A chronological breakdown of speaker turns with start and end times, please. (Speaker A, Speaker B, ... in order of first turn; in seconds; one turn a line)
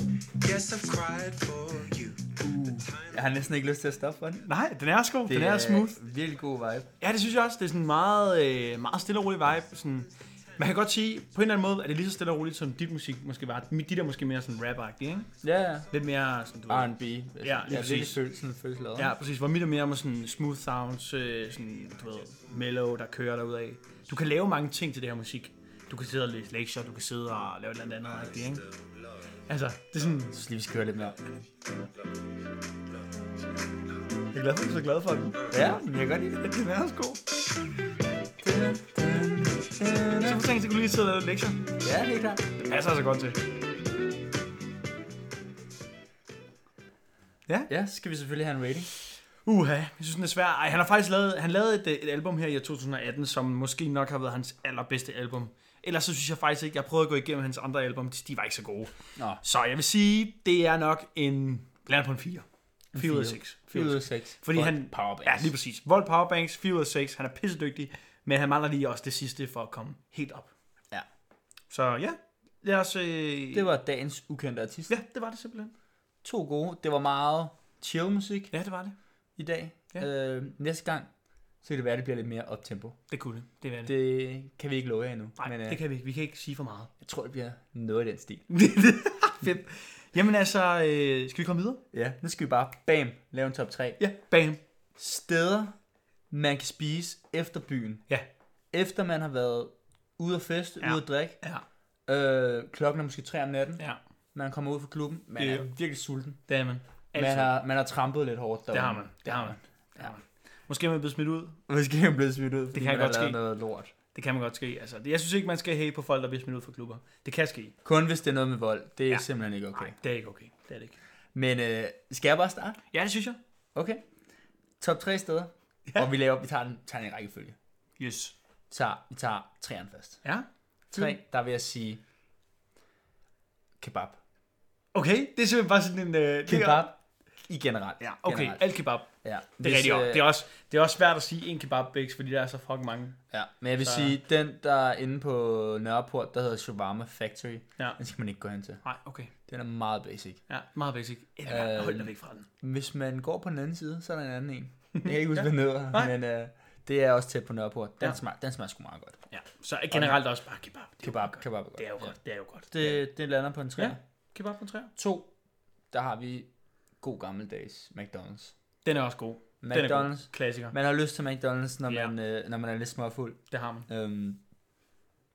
Speaker A: 0.4-3.2
Speaker B: 2.5-2.7
Speaker C: 2.5-4.5
Speaker B: 4.5-6.0
Speaker C: 5.2-6.9
Speaker B: 7.0-15.3
Speaker C: 15.4-15.9
Speaker B: 15.9-18.2
Speaker C: 16.7-19.1
Speaker B: 18.9-28.6
Speaker A: 28.4-29.1
Speaker B: 29.5-30.3
Speaker C: 30.3-31.1
Speaker B: 34.3-35.5
Speaker C: 35.5-36.4
Speaker B: 36.3-37.2
Speaker C: 38.4-40.4
Speaker B: 40.2-41.7
Speaker C: 41.8-42.4
Speaker B: 42.6-43.4
Speaker C: 47.7-48.9
Speaker B: 49.4-70.5
Speaker C: 62.9-65.5
Speaker B: 71.7-73.7
Speaker C: 73.5-74.9
Speaker B: 74.9-75.7
Speaker C: 76.2-78.5
Speaker B: 78.5-78.9
Speaker C: 79.4-81.1
Speaker C: 81.6-83.0
Speaker B: 83.1-83.9
Speaker C: 83.8-85.8
Speaker B: 85.4-86.9
Speaker C: 87.0-88.5
Speaker B: 88.5-91.8
Speaker C: 91.9-94.0
Speaker B: 94.0-94.6
Speaker C: 95.0-95.8
Speaker C: 96.3-98.0
Speaker C: 98.7-101.4
Speaker B: 100.8-101.6
Speaker C: 102.1-103.8
Speaker C: 104.3-106.4
Speaker B: 105.4-105.7
Speaker B: 106.5-107.5
Speaker C: 107.1-110.1
Speaker B: 108.7-111.6
Speaker C: 111.7-113.9
Speaker B: 112.7-113.4
Speaker B: 114.1-117.7
Speaker C: 117.8-119.9
Speaker B: 119.1-121.0
Speaker C: 121.3-122.8
Speaker B: 122.9-123.4
Speaker C: 123.8-124.0
Speaker C: 124.8-127.5
Speaker B: 128.0-128.3
Speaker C: 128.7-130.2
Speaker B: 130.2-131.2
Speaker C: 130.9-132.0
Speaker C: 133.8-134.2
Speaker B: 134.9-136.9
Speaker C: 136.5-140.2
Speaker B: 138.0-143.2
Speaker C: 143.3-148.8
Speaker B: 143.8-144.2
Speaker B: 148.8-149.3
Speaker C: 149.5-150.4
Speaker B: 150.5-152.5
Speaker C: 151.5-159.2
Speaker B: 154.9-156.1
Speaker B: 159.3-163.0
Speaker C: 159.9-160.2
Speaker C: 161.0-162.1
Speaker C: 162.7-164.0
Speaker B: 163.8-164.9
Speaker C: 164.9-165.3
Speaker C: 165.9-168.5
Speaker B: 168.8-170.8
Speaker C: 169.6-174.4
Speaker B: 171.9-172.1
Speaker B: 173.5-173.9